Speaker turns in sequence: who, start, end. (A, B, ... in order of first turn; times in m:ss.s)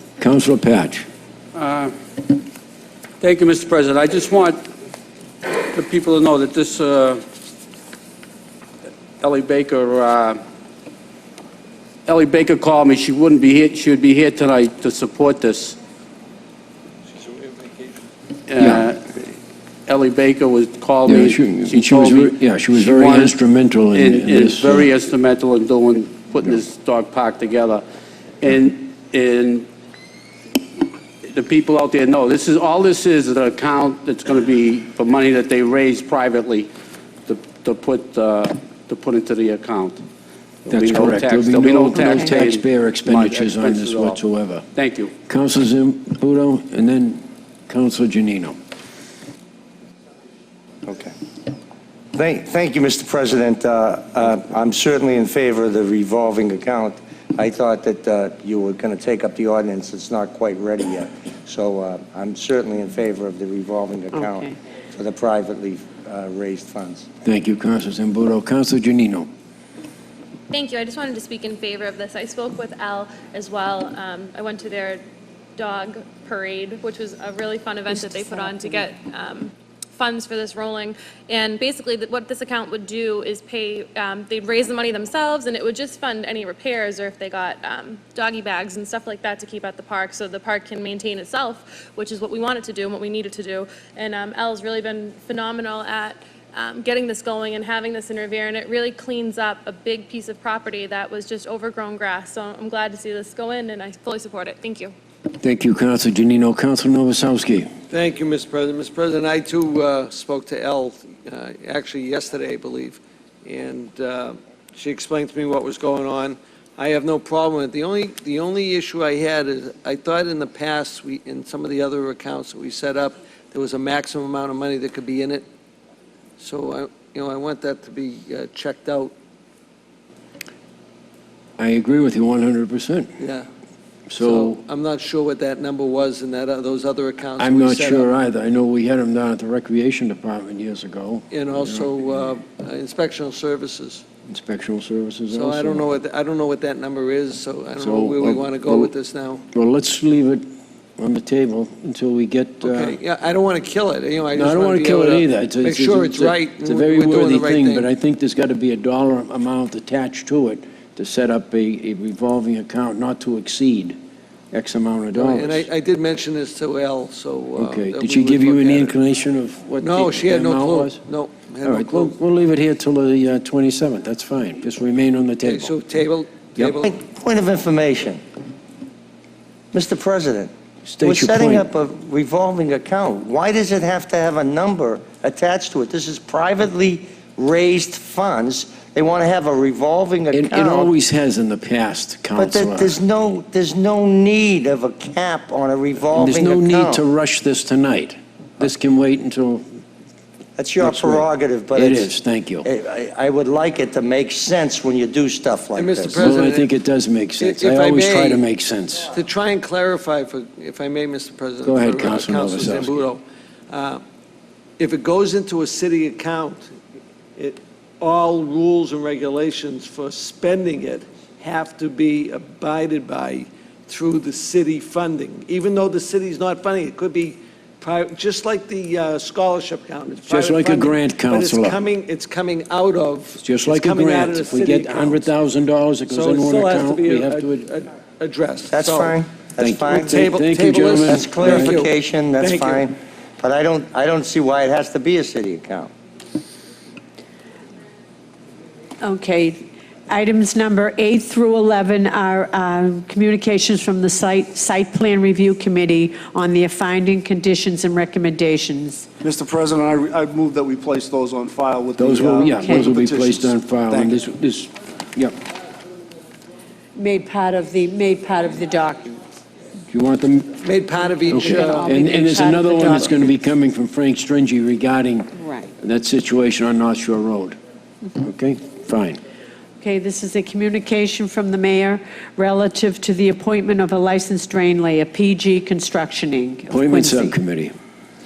0:00.2-0:01.0 A
0:01.5-0:01.9 B
0:03.2-0:04.6 B
0:05.5-0:07.2 B
0:09.2-0:10.4 B
0:12.0-0:15.8 B
0:18.5-0:19.2 B
0:18.6-0:18.8 A
0:19.9-0:23.4 B
0:21.0-0:24.9 A
0:23.9-0:27.8 B
0:28.4-0:29.7 B
0:31.2-0:36.7 B
0:37.3-0:40.0 B
0:40.6-0:44.2 B
0:40.7-0:44.6 A
0:44.7-0:45.1 B
0:45.3-0:48.6 A
0:50.8-0:51.1 C
0:52.1-1:07.0 C
1:04.1-1:04.6 D
1:07.2-1:09.3 A
1:10.5-1:15.0 E
1:15.6-1:44.9 E
1:17.9-1:18.9 D
1:45.3-1:47.7 A
1:47.9-2:05.4 F
2:06.4-2:09.1 F
2:11.6-2:13.1 A
2:13.2-2:13.5 F
2:14.1-2:14.6 A
2:14.2-2:18.1 F
2:17.4-2:22.0 A
2:21.3-2:24.0 F
2:24.3-2:25.9 A
2:25.3-2:29.4 F
2:27.8-2:28.9 A
2:29.5-2:30.5 A
2:31.0-2:33.0 A
2:32.6-2:37.9 F
2:34.3-2:44.0 A
2:44.5-2:45.6 A
2:45.1-2:49.0 F
2:47.6-2:51.0 A
2:49.8-2:52.2 F
2:51.6-2:55.7 A
2:55.4-2:57.0 F
2:56.8-2:58.2 C
2:59.7-3:10.9 C
3:00.8-3:01.6 A
3:10.3-3:13.0 A
3:12.4-3:17.0 C
3:16.1-3:19.7 A
3:20.6-3:22.1 C
3:20.8-3:22.7 A
3:22.6-3:26.4 C
3:25.7-3:26.7 F
3:26.2-3:29.1 A
3:27.4-3:28.4 F
3:29.1-3:34.0 F
3:31.6-3:33.0 A
3:34.8-3:36.7 F
3:37.4-3:55.3 F
3:50.3-3:51.8 A
3:53.4-3:57.7 A
3:56.1-3:59.2 F
3:58.7-4:00.2 C
3:59.6-4:01.8 A
3:59.9-4:02.9 F
4:01.0-4:05.9 C
4:09.0-4:19.1 D
4:19.2-4:24.2 G
4:22.0-4:25.4 A
4:22.6-4:22.9 D
4:27.0-4:29.2 D
4:29.9-4:30.6 A
4:30.6-4:33.3 F
4:31.2-4:33.0 D
4:31.3-4:37.6 A
4:35.4-4:35.7 D
4:38.2-4:39.2 A
4:39.8-4:47.4 D
4:46.7-4:47.7 A